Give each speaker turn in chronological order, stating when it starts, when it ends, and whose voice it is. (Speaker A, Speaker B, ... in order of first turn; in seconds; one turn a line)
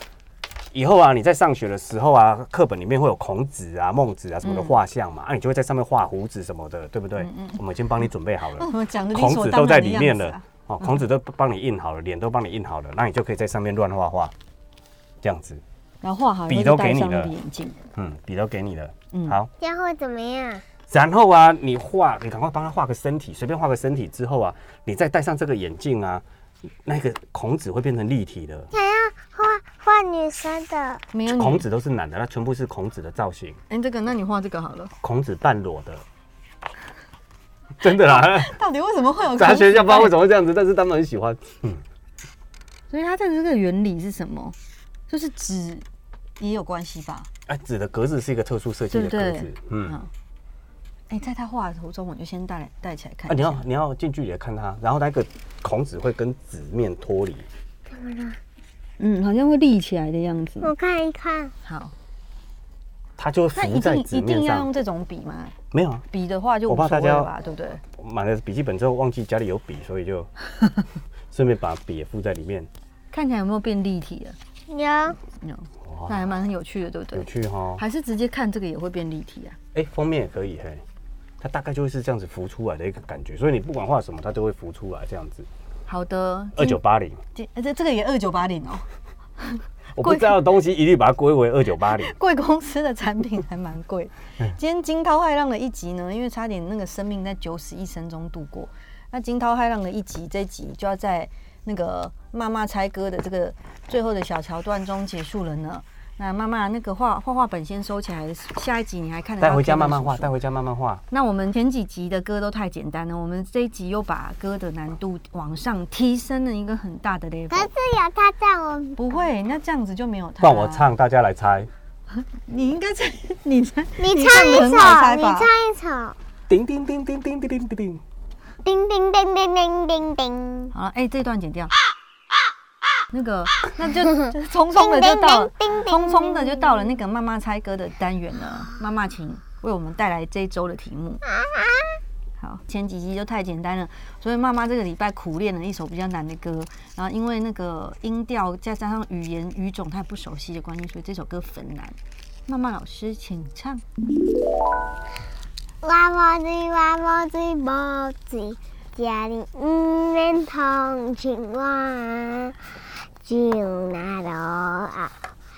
Speaker A: 0.7-14.3
Speaker B: 4.4-4.8
Speaker B: 7.2-7.6
Speaker B: 8.6-11.0
Speaker A: 15.2-15.6
Speaker B: 16.0-17.8
Speaker A: 16.5-17.3
Speaker A: 17.9-19.5
Speaker B: 19.1-19.4
Speaker C: 19.6-20.6
Speaker A: 20.9-26.2
Speaker A: 26.8-28.7
Speaker C: 28.7-31.0
Speaker B: 31.1-31.6
Speaker A: 31.3-33.6
Speaker B: 33.7-34.9
Speaker A: 35.0-36.0
Speaker A: 37.8-38.6
Speaker B: 38.0-40.2
Speaker A: 39.4-41.8
Speaker B: 42.9-44.5
Speaker B: 45.1-45.8
Speaker B: 46.4-47.3
Speaker A: 47.5-50.0
Speaker B: 48.9-50.1
Speaker B: 51.1-53.6
Speaker A: 53.3-57.5
Speaker C: 57.9-58.4
Speaker B: 59.0-60.7
Speaker C: 60.6-61.5
Speaker B: 61.6-61.9
Speaker A: 63.2-64.7
Speaker B: 63.5-65.5
Speaker A: 65.7-66.0
Speaker B: 66.1-67.8
Speaker A: 66.7-67.3
Speaker A: 67.9-70.3
Speaker A: 71.3-72.7
Speaker B: 73.1-74.3
Speaker C: 74.7-75.2
Speaker B: 75.4-79.6
Speaker A: 75.8-76.3
Speaker A: 77.1-77.8
Speaker A: 79.7-80.8
Speaker A: 81.4-85.5
Speaker B: 85.8-86.8
Speaker A: 86.5-87.2
Speaker B: 87.3-88.8
Speaker B: 89.4-90.5
Speaker A: 89.9-92.1
Speaker B: 92.0-110.3
Speaker A: 109.4-111.0
Speaker B: 111.1-117.7
Speaker C: 117.5-119.0
Speaker B: 119.0-120.9
Speaker A: 120.4-121.7
Speaker B: 122.1-125.5
Speaker C: 124.0-126.2
Speaker A: 126.5-128.0
Speaker C: 128.6-130.7
Speaker B: 130.7-131.7
Speaker B: 133.1-141.2
Speaker C: 134.7-136.9
Speaker C: 141.2-142.0
Speaker B: 142.4-151.9
Speaker B: 152.5-153.8
Speaker C: 155.8-162.5
Speaker C: 163.2-165.1